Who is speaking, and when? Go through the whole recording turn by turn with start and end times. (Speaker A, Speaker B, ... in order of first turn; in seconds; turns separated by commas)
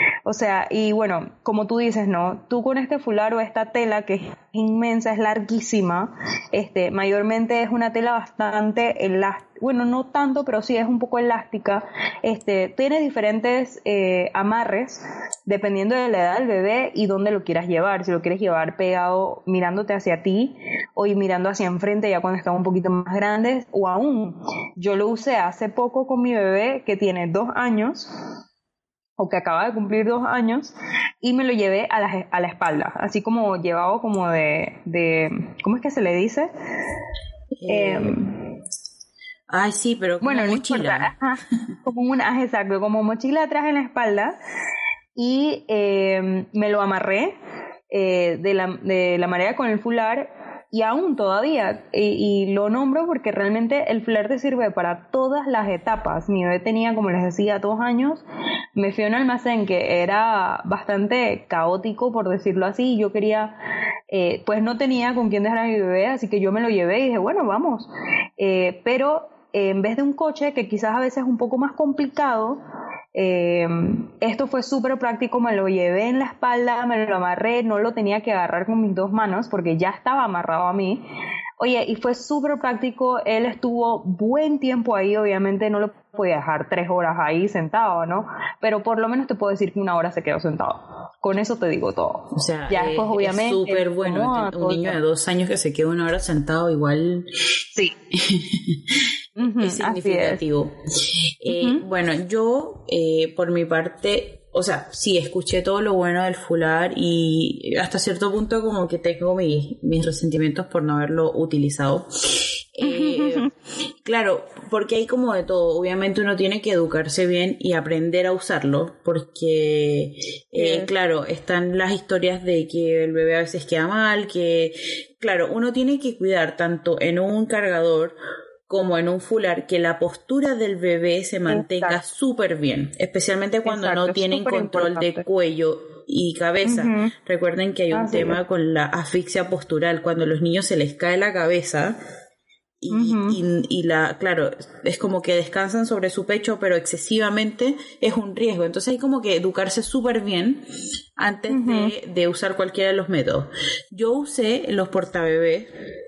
Speaker A: 0.2-28.1, Speaker A: 29.2-36.5, Speaker B: 37.6-38.2, Speaker A: 37.7-38.3, Speaker B: 39.5-41.1, Speaker A: 40.2-44.4, Speaker A: 45.2-47.4, Speaker A: 47.9-58.2, Speaker A: 58.8-63.5, Speaker A: 64.1-72.6, Speaker A: 73.2-81.0, Speaker A: 81.6-95.0, Speaker B: 92.3-97.3, Speaker B: 98.1-99.0, Speaker A: 99.4-100.4, Speaker B: 99.6-113.5, Speaker A: 101.5-101.8, Speaker A: 112.8-113.5, Speaker B: 114.0-128.2, Speaker A: 120.6-120.9, Speaker B: 128.7-142.0, Speaker A: 131.5-132.0, Speaker A: 133.7-135.2, Speaker A: 136.6-137.1, Speaker A: 137.9-138.4, Speaker B: 142.8-150.7, Speaker A: 142.9-143.4, Speaker B: 151.2-155.7, Speaker A: 151.5-151.9